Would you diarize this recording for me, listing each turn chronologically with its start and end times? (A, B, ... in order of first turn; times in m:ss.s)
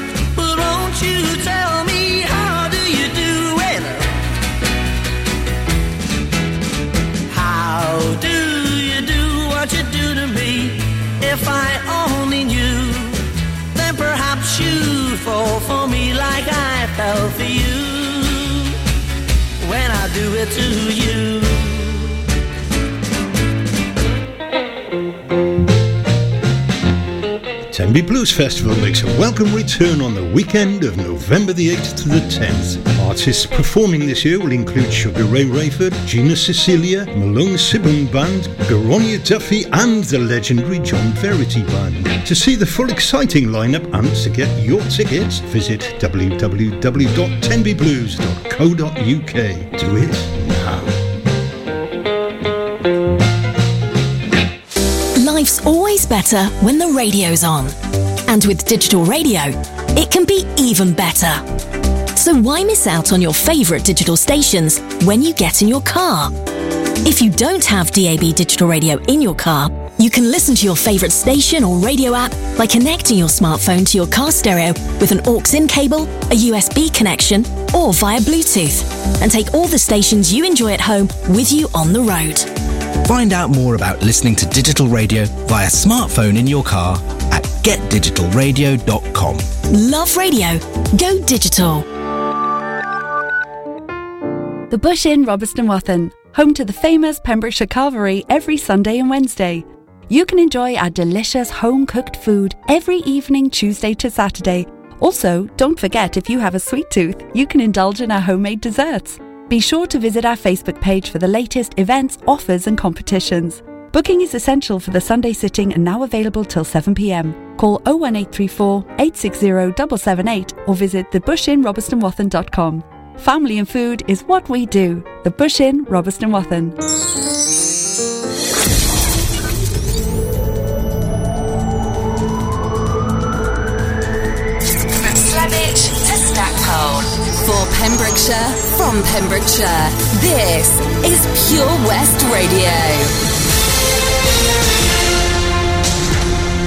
0:00.3-0:04.1 A
0:07.3-0:18.7 A
0:19.6-0:22.0 A
0:27.7-0:50.9 B
0:55.2-0:57.7 C
0:58.3-1:01.4 C
1:02.2-1:06.3 C
1:07.0-1:22.4 C
1:23.1-1:29.5 D
1:29.7-1:31.8 C
1:34.7-2:06.8 E
2:15.0-2:23.2 F